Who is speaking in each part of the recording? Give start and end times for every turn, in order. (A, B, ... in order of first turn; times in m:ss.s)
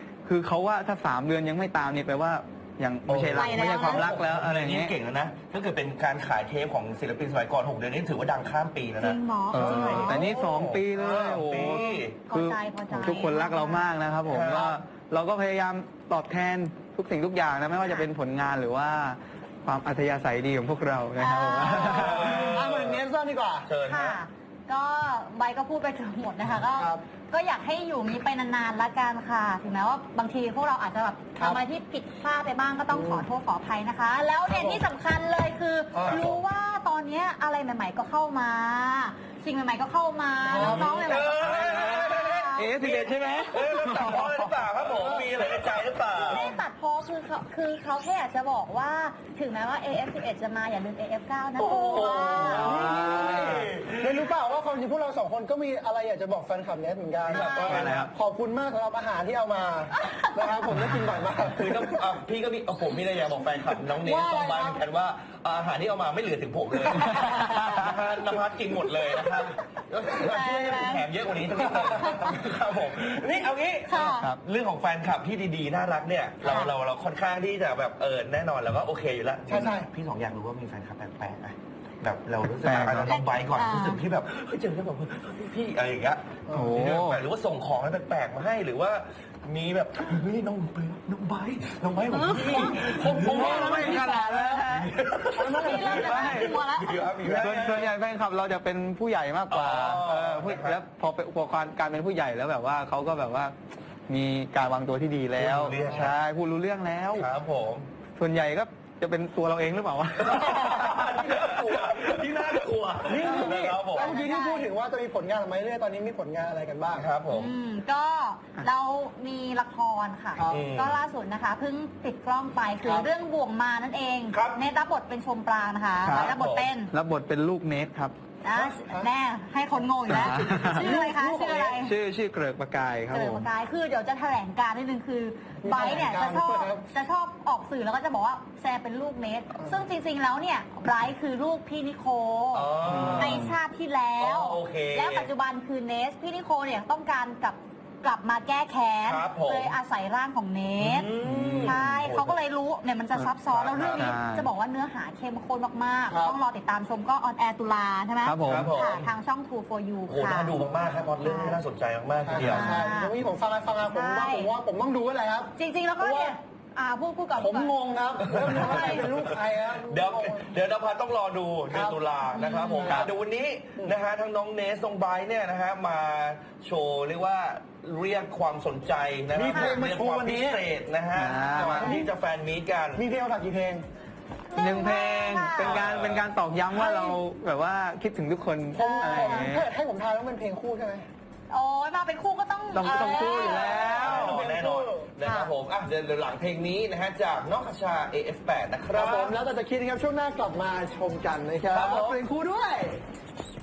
0:00.2-0:04.9 A
0:03.1-0:10.8 B
0:03.3-0:04.1 C
0:09.0-0:10.2 C
0:09.5-0:22.3 A
0:10.9-0:11.5 D
0:11.5-0:12.2 B
0:12.2-0:13.9 C
0:14.3-0:14.8 B
0:17.8-0:18.0 C
0:21.2-0:22.2 C
0:21.7-0:23.0 B
0:22.2-0:23.7 D
0:23.6-0:24.2 B
0:23.8-0:42.8 C
0:26.7-0:27.0 D
0:32.9-0:33.3 D
0:34.5-0:34.8 D
0:35.9-0:36.3 D
0:36.1-0:36.4 B
0:40.5-0:41.2 D
0:40.5-0:46.6 B
0:41.4-0:44.6 A
0:44.9-0:45.5 D
0:46.2-0:52.8 C
0:51.6-0:54.3 B
0:51.9-0:53.7 A
0:52.3-1:02.0 D
0:57.2-0:58.0 B
0:57.3-0:57.8 C
0:57.6-0:58.1 A
1:01.5-1:34.0 B
1:04.0-1:04.8 D
1:07.2-1:07.8 A
1:10.2-1:11.1 C
1:11.6-1:12.2 D
1:12.0-1:12.4 C
1:13.9-1:14.3 C
1:16.4-1:16.7 C
1:19.5-1:19.9 D
1:22.6-1:23.2 A
1:23.0-1:24.0 C
1:26.5-1:26.7 D
1:26.5-1:27.2 A
1:32.1-1:32.9 C
1:32.4-1:34.6 D
1:33.3-1:34.9 A
1:34.7-1:37.9 B
1:35.3-1:36.3 D
1:35.4-1:37.1 C
1:35.9-1:36.6 A
1:37.3-1:43.5 A
1:39.5-1:40.8 B
1:44.1-1:47.3 A
1:45.4-1:46.2 B
1:45.8-1:46.1 D
1:47.1-1:47.9 B
1:48.2-1:51.0 A
1:50.2-1:54.1 B
1:50.4-1:52.1 D
1:53.0-1:57.1 D
1:53.2-1:54.6 C
1:56.9-1:57.5 B
1:57.3-2:06.9 C
2:00.3-2:00.6 D
2:00.5-2:01.0 B
2:02.8-2:03.1 D
2:04.3-2:04.6 B
2:06.0-2:06.3 A
2:06.1-2:06.7 B
2:06.9-2:08.1 A
2:08.4-2:12.0 C
2:08.5-2:09.1 D
2:09.8-2:11.8 D
2:10.1-2:11.0 A
2:11.8-2:13.5 A
2:13.1-2:40.6 C
2:15.6-2:16.8 D
2:22.5-2:23.4 B
2:22.8-2:23.5 A
2:24.2-2:25.3 B
2:29.0-2:29.7 B
2:30.8-2:32.4 B
2:31.2-2:32.0 A
2:33.5-2:34.1 B
2:34.0-2:34.5 A
2:36.1-2:36.4 D
2:38.2-2:38.7 A
2:38.5-2:39.1 B
2:40.1-2:42.9 B
2:41.2-2:41.6 C
2:42.2-2:46.3 D
2:42.4-2:43.1 C
2:42.4-2:42.7 A
2:43.9-2:44.5 C
2:45.6-2:47.7 C
2:47.4-2:50.6 D
2:48.3-3:03.0 B
2:48.5-2:49.1 C
2:51.7-2:53.1 D
2:52.3-2:52.9 C
2:59.3-3:00.6 D
3:01.1-3:02.0 A
3:01.6-3:02.1 D
3:02.9-3:03.8 D
3:04.5-3:05.8 C
3:04.5-3:09.6 A
3:05.6-3:06.3 B
3:06.7-3:07.2 D
3:08.7-3:11.1 D
3:08.9-3:09.5 C
3:11.5-3:13.9 C
3:12.7-3:14.5 A
3:13.3-3:19.3 B
3:13.6-3:15.1 D
3:15.2-3:15.5 C
3:18.9-3:23.0 D
3:21.6-3:22.2 B